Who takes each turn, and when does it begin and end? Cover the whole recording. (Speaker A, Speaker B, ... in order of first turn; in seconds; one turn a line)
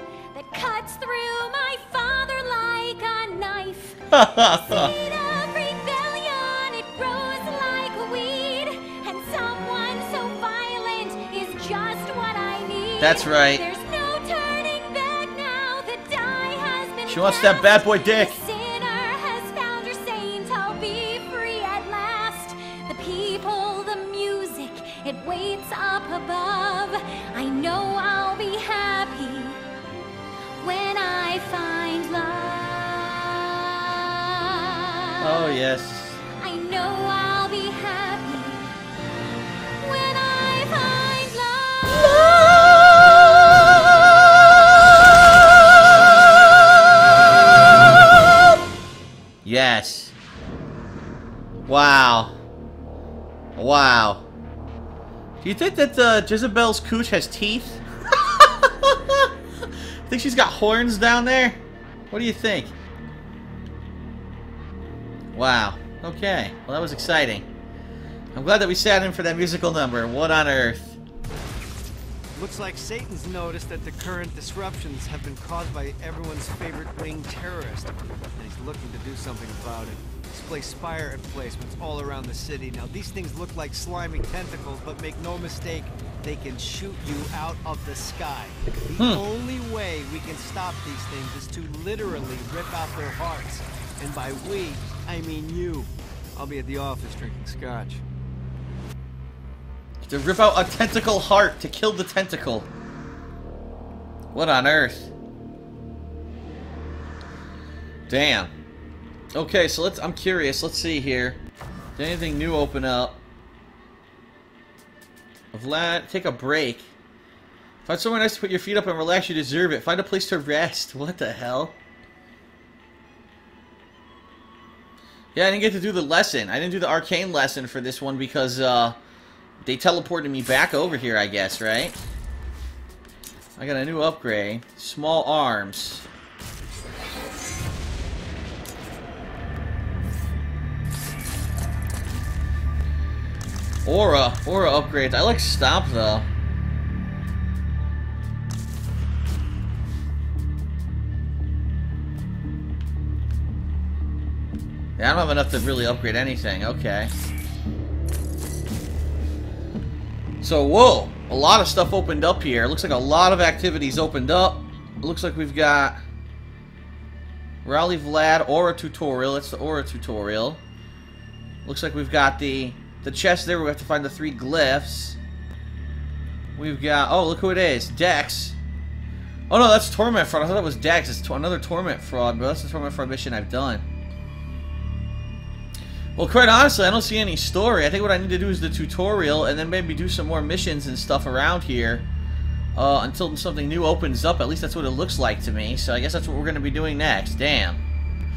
Speaker A: 0.3-29.6
Speaker B: 4.1-4.9
Speaker B: 13.0-13.6
Speaker B: 17.1-18.4
Speaker A: 30.6-35.5
Speaker B: 35.2-36.2
Speaker A: 36.4-38.7
Speaker A: 39.8-44.5
Speaker B: 49.4-50.1
Speaker B: 51.7-52.4
Speaker B: 53.6-54.2
Speaker B: 55.4-59.3
Speaker B: 60.1-61.6
Speaker B: 62.1-62.7
Speaker B: 65.3-67.5
Speaker B: 68.3-71.0
Speaker C: 72.3-98.0
Speaker B: 89.0-89.2
Speaker B: 100.0-102.7
Speaker B: 104.3-105.1
Speaker B: 108.1-108.5
Speaker B: 109.3-111.4
Speaker B: 112.0-113.2
Speaker B: 115.5-116.9
Speaker B: 117.8-121.8
Speaker B: 125.3-129.0
Speaker B: 129.6-132.0
Speaker B: 133.6-136.1
Speaker B: 143.8-146.3
Speaker B: 155.0-157.1
Speaker B: 160.4-166.0
Speaker B: 167.6-170.6
Speaker B: 171.7-175.2
Speaker B: 176.6-178.6
Speaker B: 179.5-183.8
Speaker B: 186.2-192.1
Speaker B: 192.8-197.8